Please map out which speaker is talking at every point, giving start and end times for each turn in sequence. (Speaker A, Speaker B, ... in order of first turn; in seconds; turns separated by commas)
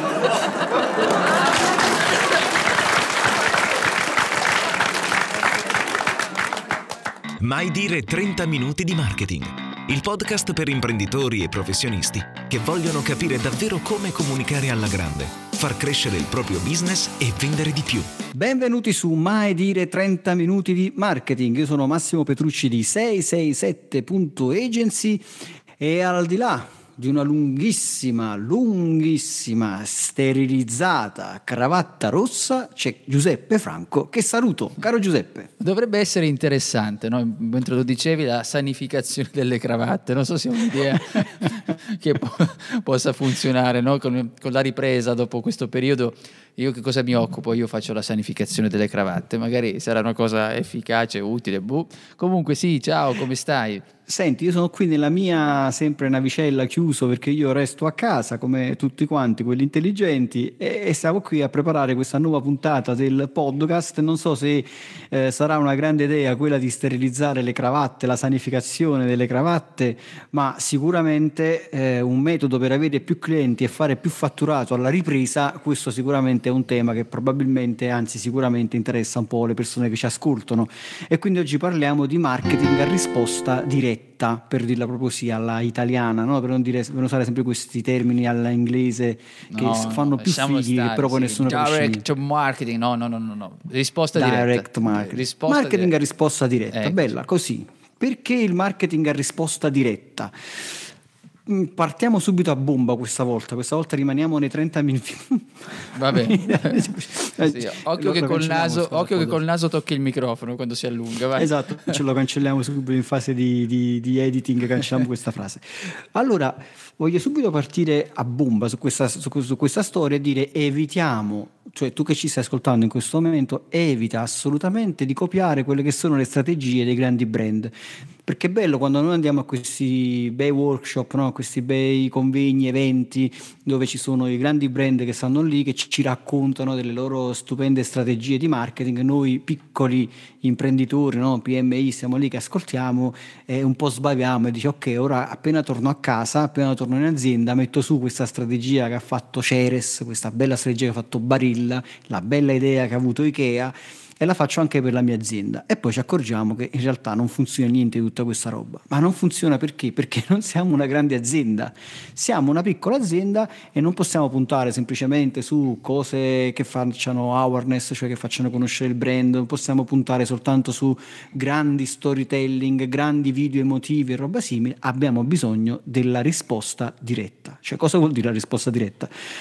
Speaker A: 7.4-18.1, Speaker B: 18.3-25.2, Speaker B: 25.8-35.5, Speaker C: 35.6-53.9, Speaker B: 54.1-92.1, Speaker C: 89.5-96.0, Speaker B: 94.1-100.8, Speaker C: 96.7-97.1, Speaker B: 101.5-109.4, Speaker C: 105.9-112.0, Speaker B: 111.3-127.7, Speaker B: 128.2-179.1